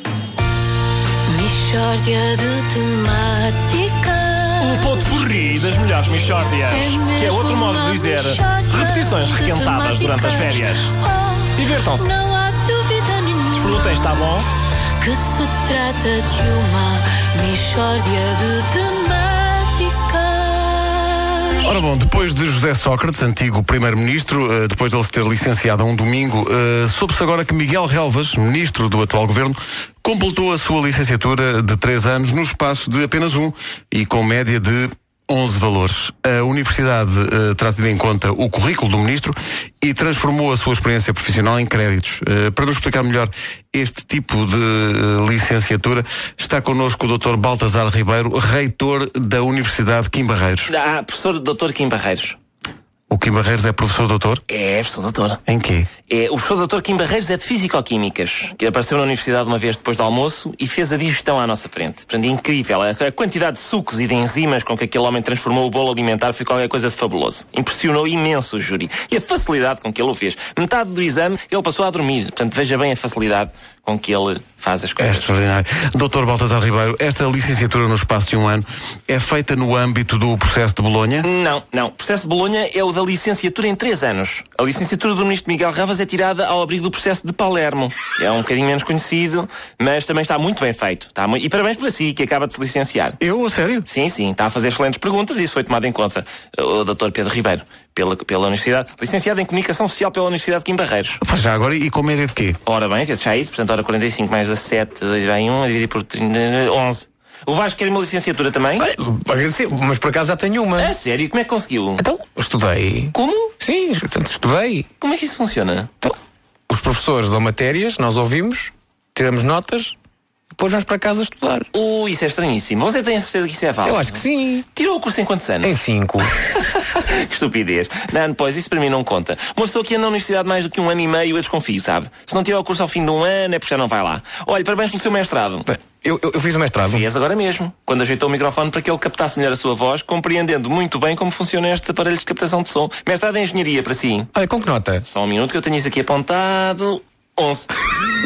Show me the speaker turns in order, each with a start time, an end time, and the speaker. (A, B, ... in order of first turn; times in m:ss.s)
0:01.3-0:05.3 A
0:04.6-0:10.9 B
0:06.7-0:14.3 A
0:09.2-0:09.7 C
0:11.6-0:12.1 B
0:13.6-0:14.5 B
0:15.0-0:21.6 A
0:21.6-0:50.7 D
0:50.7-0:52.4 C
0:53.1-0:54.4 D
0:54.5-0:55.4 C
0:55.5-0:55.9 D
0:56.1-1:15.3 C
1:15.0-1:21.3 D
1:21.2-1:33.2 C
1:33.2-1:33.9 D
1:33.9-1:41.2 C
1:41.2-1:42.6 D
1:42.7-1:48.9 C
1:48.8-1:51.0 E
1:50.8-1:52.0 C
1:52.0-1:54.9 E
1:53.1-1:53.5 C
1:55.0-1:55.9 C
1:56.7-2:00.0 E
2:00.6-2:01.7 E
2:01.7-2:05.8 C
2:03.8-2:04.6 E
2:05.6-2:06.4 E
2:06.9-2:15.7 C
2:15.7-2:17.0 E
2:16.9-2:24.3 C
2:24.3-2:25.0 E
2:25.0-2:27.7 C